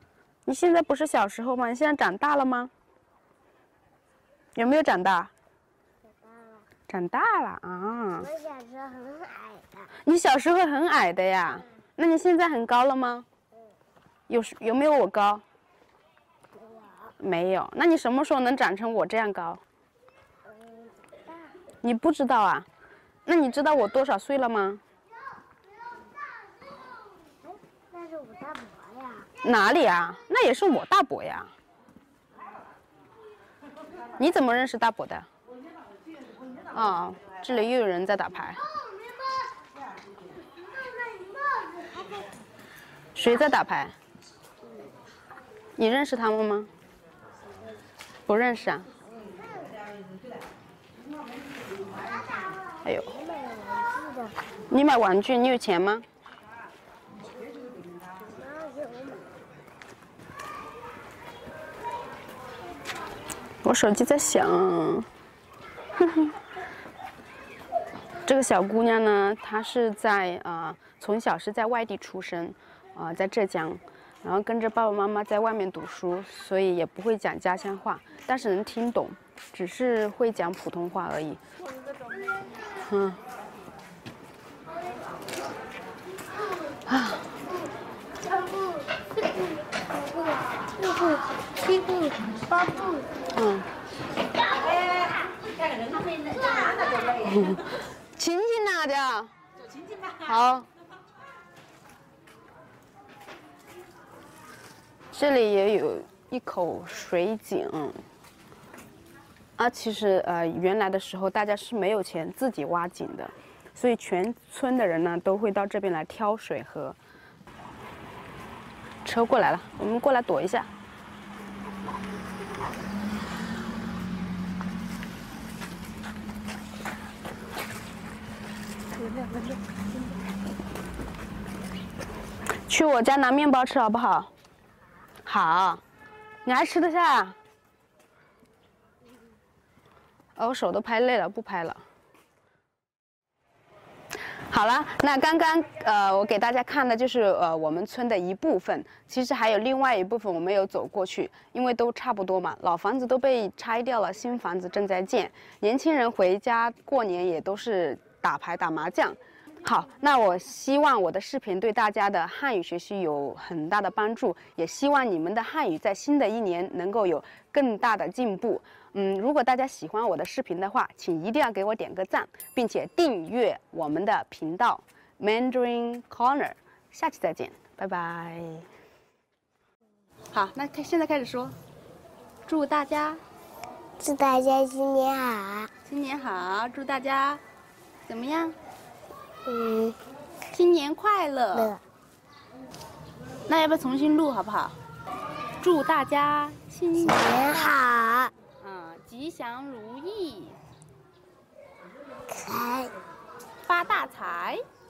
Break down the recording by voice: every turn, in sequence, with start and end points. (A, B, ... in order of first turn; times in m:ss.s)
0:00.4-0:02.7 A
0:04.6-0:05.3 A
0:06.1-0:06.6 B
0:06.9-0:08.3 A
0:08.2-0:09.9 B
0:10.0-0:13.3 A
0:14.3-0:15.4 A
0:16.5-0:17.1 B
0:17.2-0:19.6 A
0:20.5-0:21.6 B
0:21.8-0:22.7 A
0:23.2-0:24.8 A
0:27.9-0:29.3 B
0:29.4-0:31.5 A
0:34.2-0:35.3 A
0:36.7-0:38.6 A
0:43.1-0:43.9 A
0:45.8-0:46.7 A
0:48.3-0:48.9 A
0:49.1-0:49.7 B
0:52.8-0:53.1 A
0:53.1-0:54.4 B
0:54.7-0:56.0 A
0:58.1-0:59.5 B
1:03.6-1:05.1 A
1:06.0-1:06.3 A
1:08.2-1:21.4 A
1:22.8-1:23.2 A
1:26.9-1:27.2 A
1:30.2-1:33.1 B
1:33.3-1:33.7 A
1:34.7-1:35.0 B
1:36.1-1:37.0 B
1:37.2-1:37.6 A
1:38.1-1:39.3 A
1:40.1-1:40.7 A
1:45.1-1:48.0 A
1:49.6-1:57.0 A
1:59.0-2:00.7 A
2:12.7-2:14.3 A
2:15.2-2:15.8 A
2:16.4-2:17.4 A
2:20.4-2:21.8 A
2:24.5-2:58.6 A
3:00.3-3:01.6 A
3:02.5-3:03.2 A
3:04.0-3:05.7 B
3:05.8-3:07.4 A
3:08.1-3:08.6 A
3:09.4-3:10.0 B
3:10.5-3:11.7 A
3:11.5-3:11.8 B
3:13.5-3:14.8 A
3:15.6-3:17.4 A
3:17.0-3:18.3 B
3:18.6-3:20.6 A
3:22.3-3:22.9 B
3:23.6-3:24.6 A